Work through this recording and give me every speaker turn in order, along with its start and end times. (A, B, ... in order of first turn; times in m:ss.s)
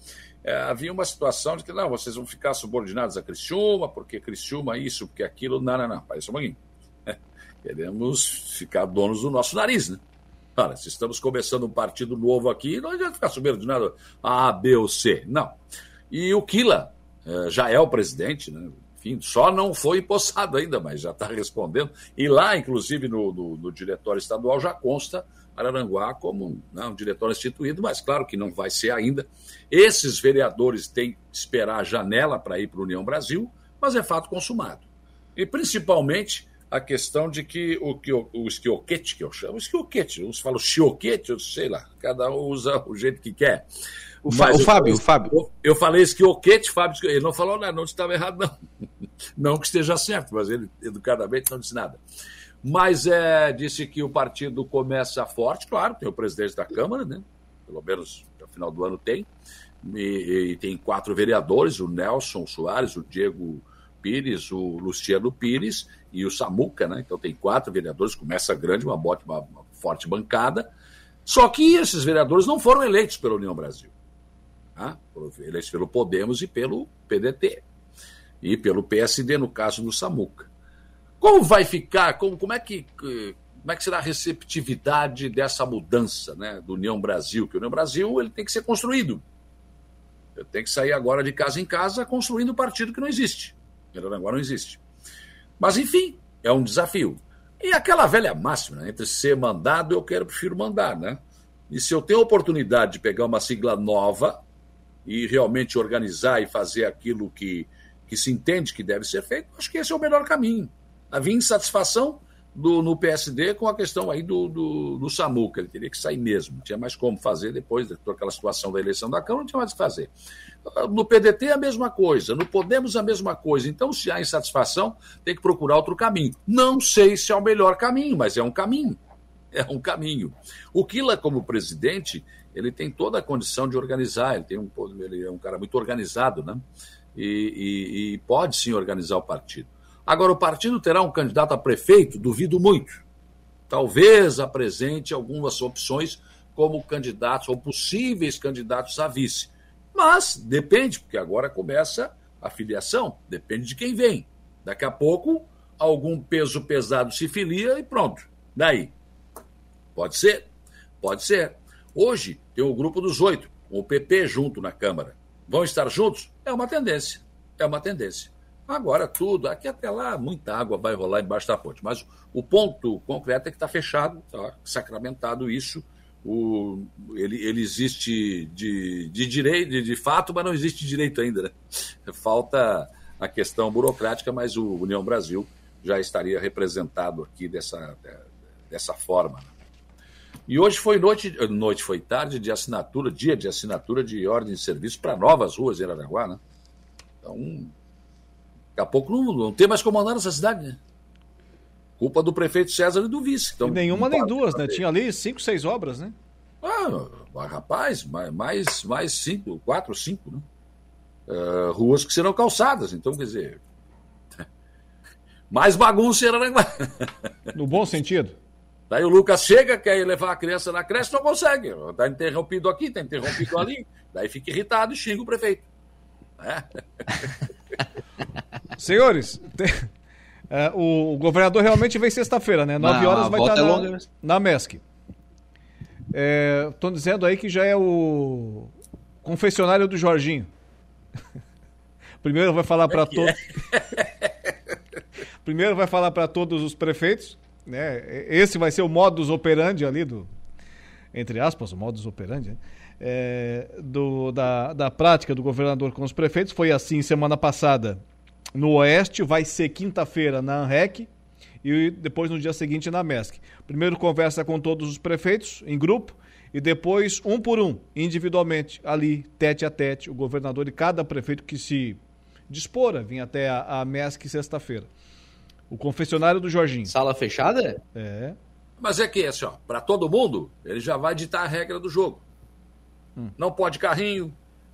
0:00.4-0:10.0 A
0:10.6-0:43.6 A
0:44.2-0:48.5 A
0:44.2-0:45.3 B
0:49.4-0:52.0 A
0:52.6-0:59.3 A
0:59.8-1:10.7 A
1:11.2-1:13.9 A
1:14.8-1:17.6 A
1:18.4-1:20.5 A
1:21.2-1:29.2 A
1:30.4-1:34.8 A
1:35.6-1:44.4 A
1:45.0-2:00.1 A
2:00.6-2:09.0 A
2:09.5-2:16.6 A
2:17.1-2:23.0 A
2:23.7-2:38.9 A
2:40.0-2:40.5 A
2:41.0-3:09.5 A
3:10.5-3:16.4 A
3:17.2-3:17.7 A
3:18.8-3:20.8 A
3:22.0-3:24.8 A
3:23.6-3:26.2 C
3:26.6-3:30.4 A
3:31.3-3:33.6 A
3:35.5-3:37.1 A
3:37.5-3:38.4 C
3:38.9-3:45.6 A
3:46.4-3:46.7 A
3:48.8-3:49.9 C
3:50.5-3:54.8 C
3:52.8-3:54.0 B
3:56.1-4:00.5 C
4:02.2-4:03.4 C
4:02.9-4:04.3 A
4:05.4-4:10.3 C
4:11.1-4:18.0 C
4:18.5-4:21.1 C
4:21.6-4:34.9 C
4:35.7-4:36.9 C
4:36.9-4:37.8 B
4:37.9-4:38.4 C
4:38.8-4:42.2 A
4:43.4-4:44.3 A